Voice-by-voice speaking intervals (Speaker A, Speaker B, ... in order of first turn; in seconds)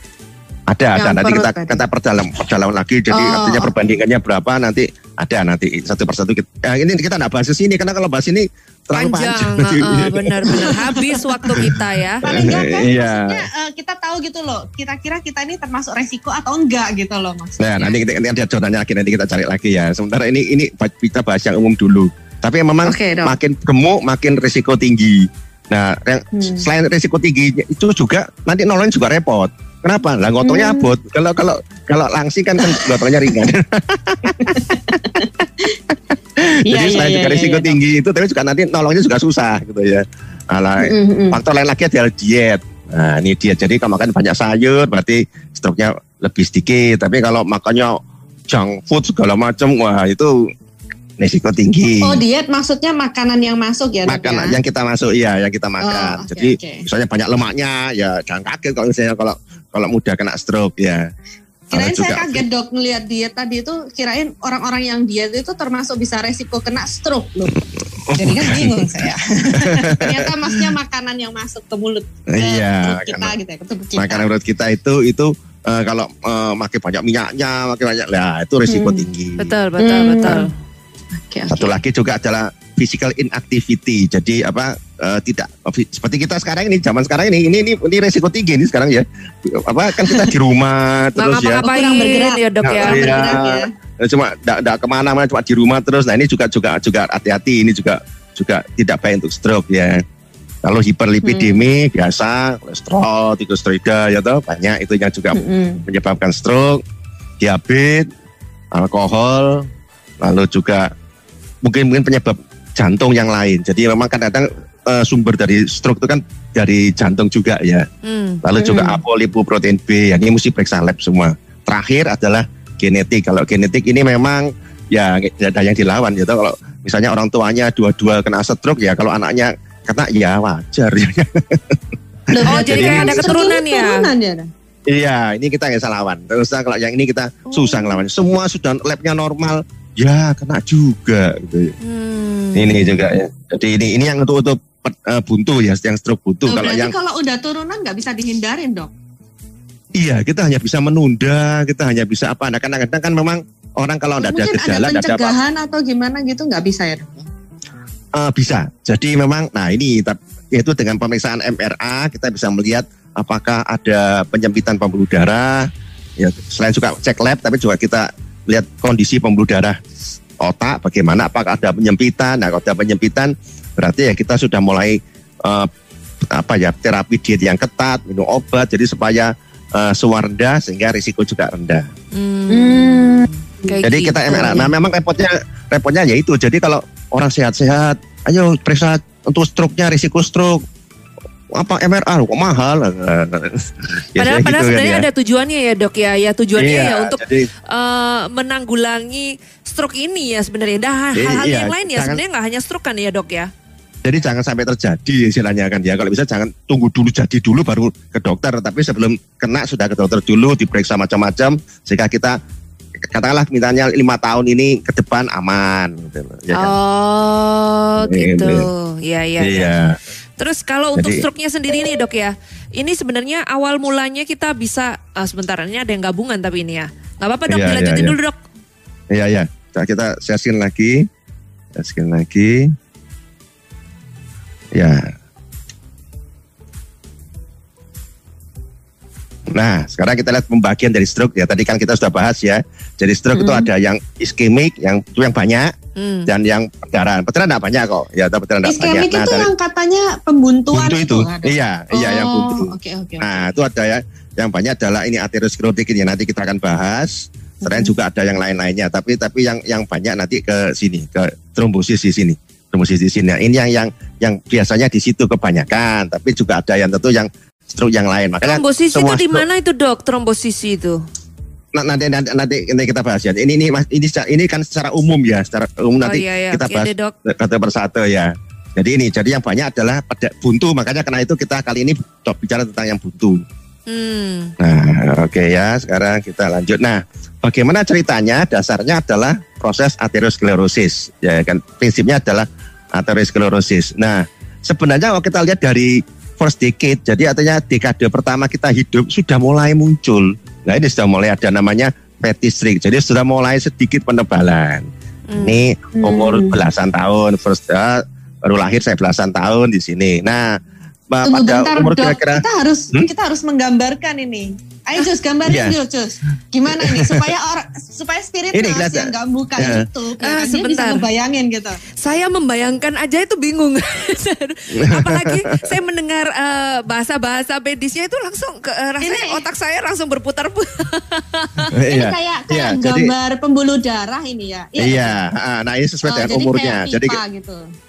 Speaker A: 0.7-10.8, 12.2-13.4, 17.6-35.2, 35.9-48.0, 48.5-50.5, 51.2-52.2, 54.1-61.1, 61.7-62.4, 68.1-68.9, 69.5-70.7, 72.3-73.3, 74.0-79.5, 81.5-91.7, 92.6-100.0, 100.6-106.8, 107.4-108.1, 108.7-109.7, 110.2-110.9, 111.6-117.9, 118.4-133.4, 134.9-141.8, 142.6-146.9, 150.0-155.4, 158.2-169.8, 170.4-175.7, 176.3-181.8, 183.8-190.6, 191.6-195.1, 196.6-197.5, 201.2-202.2, 204.0-212.4, 213.0-216.7, 218.0-218.7, 219.4-220.0, 221.0-221.2, 227.5-228.2, 229.1-231.1, 231.8-232.7, 234.8-235.1, 239.5-245.7, 246.3-249.5, 250.7-269.4, 271.7-283.4, 284.6-304.9, 305.4-310.5, 311.1-313.1, 315.5-315.8, 316.7-317.3, 318.5-319.9, 324.7-325.7, 331.7-333.1, 334.8-337.2
Speaker B: 1.0-1.8, 3.1-3.7, 10.7-11.2, 12.2-18.0, 22.9-23.4, 26.4-26.6, 30.4-30.9, 32.6-32.9, 34.4-35.8, 36.7-37.8, 40.8-41.4, 52.0-54.6, 55.8-56.9, 61.7-67.6, 68.2-74.3, 78.7-79.0, 79.8-80.5, 81.2-81.7, 91.6-93.7, 101.2-101.7, 105.3-105.8, 118.6-119.0, 132.3-134.5, 137.5-138.0, 146.5-148.9, 154.2-157.2, 182.5-183.7, 243.3-243.7, 248.7-253.5, 257.6-257.9, 306.0-306.6, 311.2-321.8, 329.0-329.4, 331.9-335.2, 336.1-337.6
Speaker C: 8.9-12.2, 79.4-80.5, 91.2-93.3, 118.0-118.4, 132.4-134.1, 141.8-143.0, 182.1-184.7, 194.2-203.5, 216.5-219.7, 220.4-228.4, 246.0-246.3, 268.4-271.0, 276.0-277.1, 283.9-284.5, 305.3-305.6, 320.2-321.1, 322.0-331.7